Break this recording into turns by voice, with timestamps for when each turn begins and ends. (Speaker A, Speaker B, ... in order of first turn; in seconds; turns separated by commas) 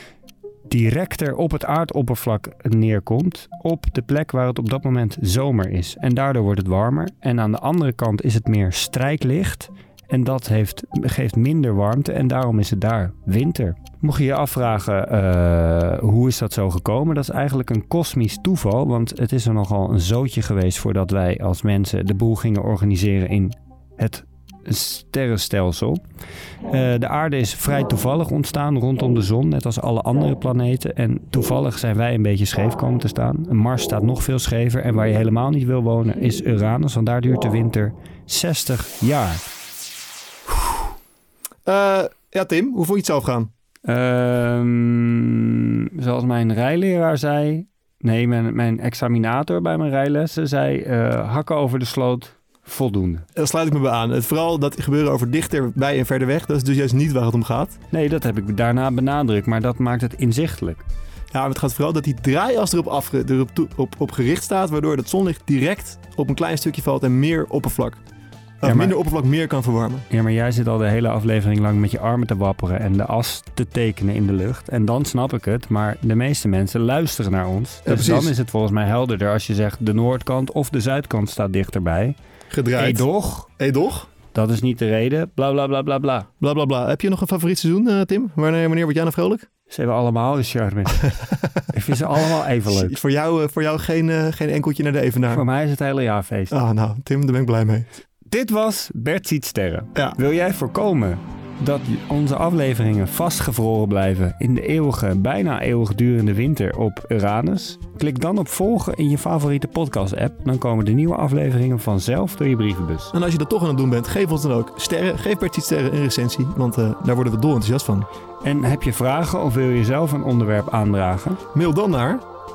Speaker A: 0.7-26.0, Speaker A: 26.7-39.4, Speaker B: 41.6-43.5, Speaker A: 43.9-53.2, Speaker B: 53.4-57.8, Speaker A: 57.9-60.8, Speaker B: 61.3-68.0, Speaker B: 68.6-70.0, Speaker A: 68.6-69.0, Speaker A: 70.1-82.1, Speaker B: 77.8-78.3, Speaker B: 82.5-84.1, Speaker A: 82.7-83.5, Speaker A: 84.3-86.3, Speaker B: 86.4-89.5, Speaker A: 89.7-93.0, Speaker B: 92.7-95.4, Speaker A: 95.3-96.5, Speaker B: 96.5-97.9, Speaker A: 98.2-113.1, Speaker B: 113.1-118.1, Speaker A: 118.4-121.4, Speaker B: 121.5-122.2